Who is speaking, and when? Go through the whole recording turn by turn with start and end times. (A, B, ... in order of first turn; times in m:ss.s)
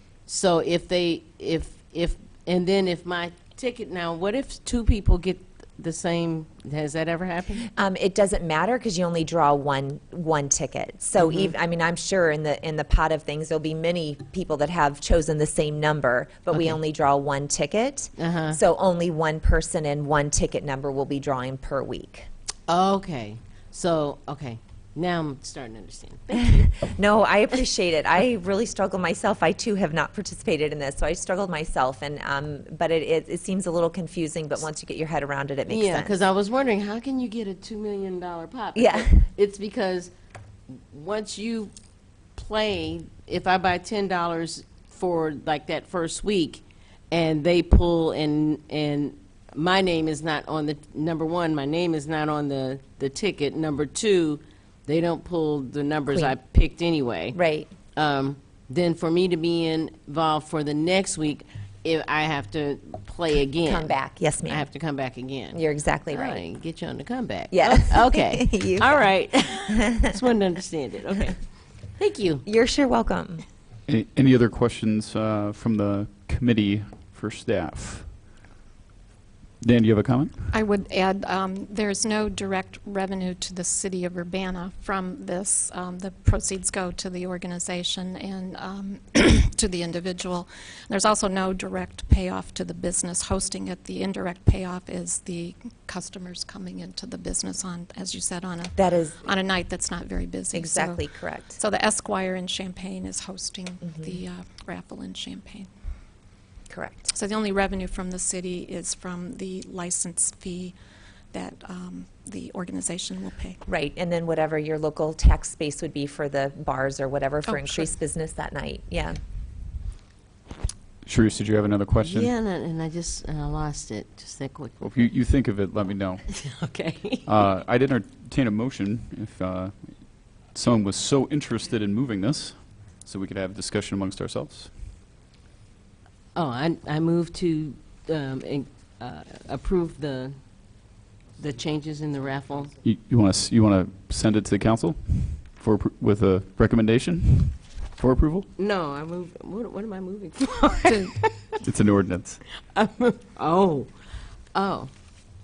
0:00.3-0:07.7 A
0:07.7-0:22.3 B
0:11.2-0:11.5 A
0:16.5-0:16.8 A
0:18.2-0:18.6 A
0:22.7-0:26.8 A
0:26.3-0:36.2 B
0:35.7-0:40.1 A
0:38.8-0:39.3 B
0:40.7-0:41.7 A
0:42.4-0:57.4 A
0:57.3-0:57.7 B
0:58.0-1:03.9 A
1:03.6-1:04.7 B
1:04.5-1:05.6 A
1:05.5-1:06.4 B
1:06.1-1:11.4 A
1:07.5-1:09.1 B
1:12.0-1:12.4 A
1:12.4-1:13.4 B
1:13.9-1:18.1 C
1:19.6-1:20.5 C
1:20.5-1:45.6 D
1:38.8-1:39.2 B
1:40.5-1:41.6 B
1:43.8-1:44.2 B
1:46.7-1:47.1 B
1:47.1-1:50.8 D
1:51.3-1:53.5 D
1:53.7-1:59.2 B
1:57.5-1:57.9 D
2:01.0-2:02.3 C
2:02.0-2:05.0 A
2:04.8-2:06.3 C
2:06.3-2:07.2 A
2:07.2-2:14.7 C
2:16.4-2:20.4 A
2:21.4-2:22.7 A
2:22.8-2:28.5 C
2:28.6-2:31.6 A
2:31.6-2:32.4 C
2:32.5-2:33.9 A
2:34.5-2:34.9 A